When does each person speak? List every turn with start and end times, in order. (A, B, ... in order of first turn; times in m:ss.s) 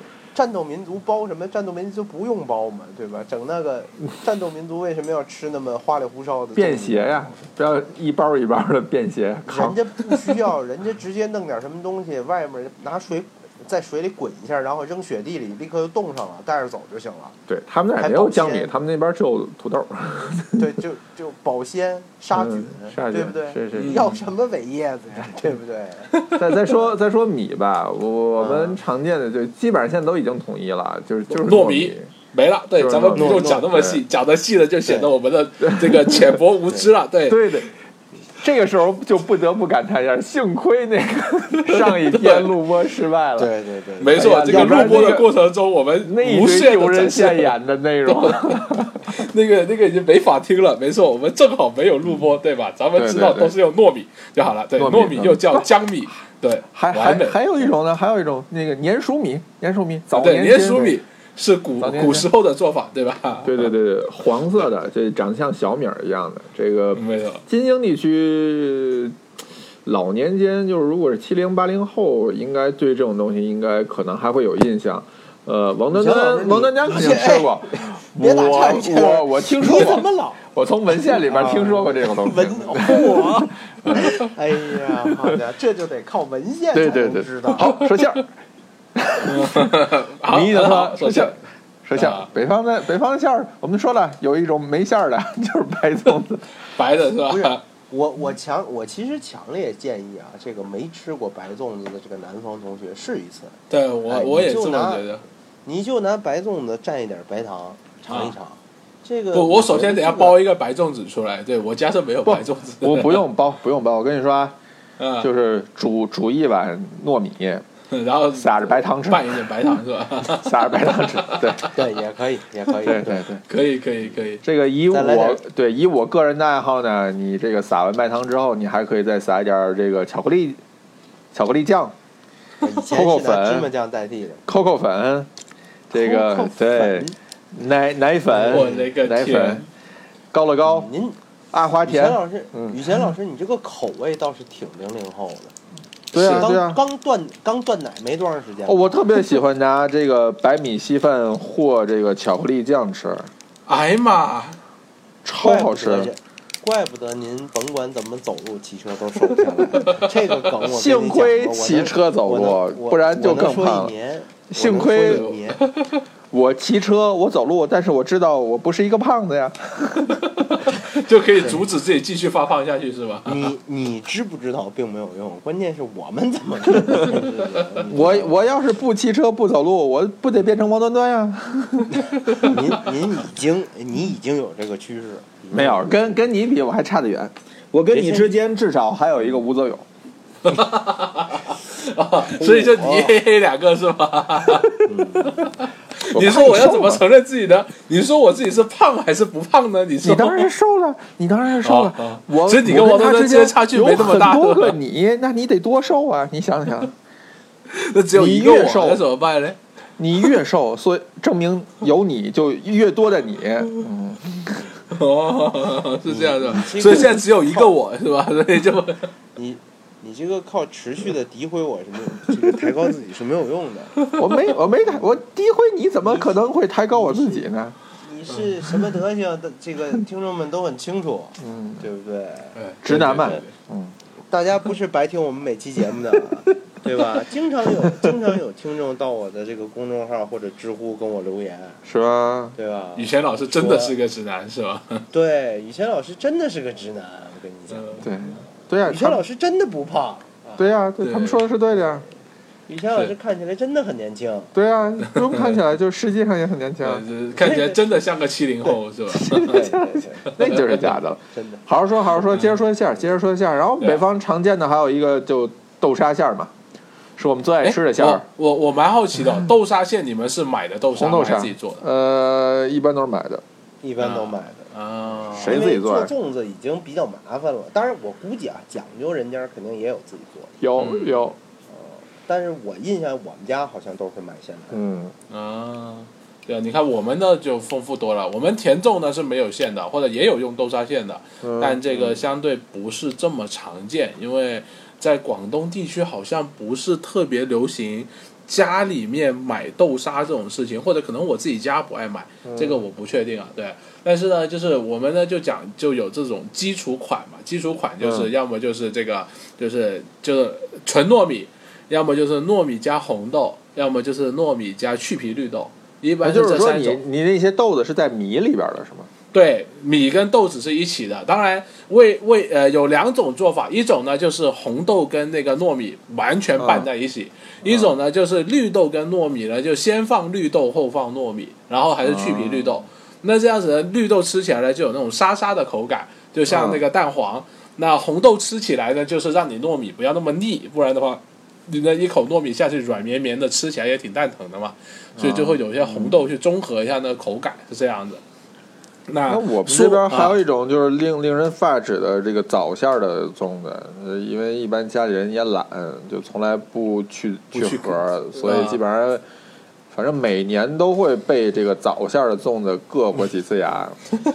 0:00.3-0:07.3 A
0:06.6-0:10.3 B
0:09.5-0:17.4 A
0:17.5-0:20.6 B
0:18.0-0:18.7 A
0:20.6-0:26.1 A
0:22.3-0:24.2 B
0:23.7-0:24.1 C
0:26.1-0:26.4 C
0:26.3-0:32.1 B
0:28.4-0:28.8 A
0:31.3-0:37.5 C
0:32.8-0:34.0 B
0:33.1-0:33.7 A
0:35.6-0:36.4 B
0:37.3-0:37.7 B
0:38.4-0:43.5 B
0:41.7-0:42.5 C
0:43.4-0:45.2 A
0:44.0-0:47.5 C
0:44.1-0:45.3 B
0:46.0-0:49.1 B
0:48.0-0:57.5 C
0:53.0-0:53.5 B
0:54.8-0:55.7 B
0:56.7-1:01.0 B
1:00.1-1:03.7 C
1:01.8-1:02.3 B
1:03.4-1:09.2 B
1:06.9-1:07.4 C
1:09.8-1:24.1 B
1:15.9-1:27.8 A
1:26.7-1:28.2 B
1:27.6-1:28.1 C
1:28.9-1:36.4 B
1:29.2-1:31.4 C
1:31.9-1:32.3 C
1:36.8-1:37.6 C
1:37.2-1:43.6 A
1:43.7-1:45.2 C
1:44.1-1:45.1 A
1:45.6-1:50.4 A
1:48.1-1:48.3 C
1:49.3-1:53.2 C
1:52.2-1:54.6 B
1:55.0-1:55.3 C
1:55.2-1:57.6 B
1:57.9-2:01.7 C
1:58.3-1:59.7 B
2:00.2-2:01.7 B
2:01.7-2:03.2 A
2:02.8-2:03.4 B
2:03.5-2:04.4 C
2:04.4-2:10.6 B
2:04.9-2:05.4 A
2:11.3-2:11.9 B
2:12.6-2:14.4 A
2:12.9-2:13.7 B
2:14.5-2:15.3 B
2:15.9-2:19.6 B
2:15.9-2:17.2 A
2:18.3-2:18.9 A
2:18.4-2:19.7 C
2:20.3-2:20.9 B
2:20.6-2:21.2 A
2:21.5-2:23.0 B
2:21.8-2:25.5 A
2:26.1-2:26.5 C
2:26.1-2:26.8 B
2:26.2-2:28.9 A
2:28.6-2:33.3 B
2:33.7-2:34.6 C
2:35.2-2:36.1 B
2:35.4-2:45.6 A
2:40.6-2:43.9 B
2:44.5-2:45.3 B
2:45.0-2:46.0 C
2:46.3-2:50.6 B
2:50.3-2:53.5 C
2:53.2-2:58.4 A
2:57.9-3:02.6 B
3:02.0-3:06.2 A
3:05.5-3:09.8 B
3:07.9-3:08.3 A
3:10.4-3:14.8 C
3:12.2-3:13.2 A
3:14.8-3:15.4 A
3:15.3-3:20.5 C
3:16.1-3:17.0 B
3:20.0-3:26.9 B
3:21.6-3:24.8 C
3:27.7-3:29.6 C
3:28.1-3:29.0 B
3:30.0-3:34.6 B
3:34.9-3:39.1 C
3:36.0-3:37.7 A
3:39.3-3:44.0 A
3:44.0-3:44.3 C
3:44.1-3:47.8 B
3:44.6-3:45.1 A
3:46.0-3:46.4 A
3:46.9-3:53.4 A
3:51.4-3:51.8 B
3:52.6-3:53.5 C
3:52.8-3:53.9 B
3:54.3-4:01.8 A
4:01.8-4:02.5 B
4:02.6-4:04.0 A
4:03.0-4:05.0 C
4:05.1-4:08.2 A
4:07.7-4:08.0 C
4:08.0-4:09.2 B
4:08.8-4:10.7 A
4:10.6-4:12.0 B
4:11.0-4:11.4 C
4:12.7-4:14.5 A
4:14.5-4:17.0 B
4:15.1-4:15.6 C
4:16.8-4:19.7 C
4:17.4-4:17.8 A
4:19.1-4:26.5 B
4:19.3-4:21.6 A
4:20.4-4:21.0 C
4:22.3-4:22.5 C
4:23.8-4:24.0 C
4:27.2-4:28.2 B
4:27.6-4:31.8 C
4:30.9-4:33.4 B
4:33.8-4:34.7 A
4:34.0-4:35.6 C
4:35.2-4:40.5 A
4:35.3-4:36.1 B
4:40.6-4:41.4 B
4:40.8-4:41.3 C
4:41.7-4:44.8 A
4:44.7-4:45.1 B
4:45.3-5:17.0 C
4:51.4-4:52.2 B
5:02.4-5:02.8 B
5:08.0-5:08.3 B
5:16.2-5:19.1 B
5:19.3-5:48.2 C
5:26.6-5:26.9 B
5:27.6-5:27.9 B
5:32.0-5:32.8 B
5:36.5-5:36.8 B
5:45.2-5:46.3 B
5:49.1-5:50.4 C
5:49.3-5:59.2 B
5:57.5-5:58.8 C
5:59.9-6:04.0 B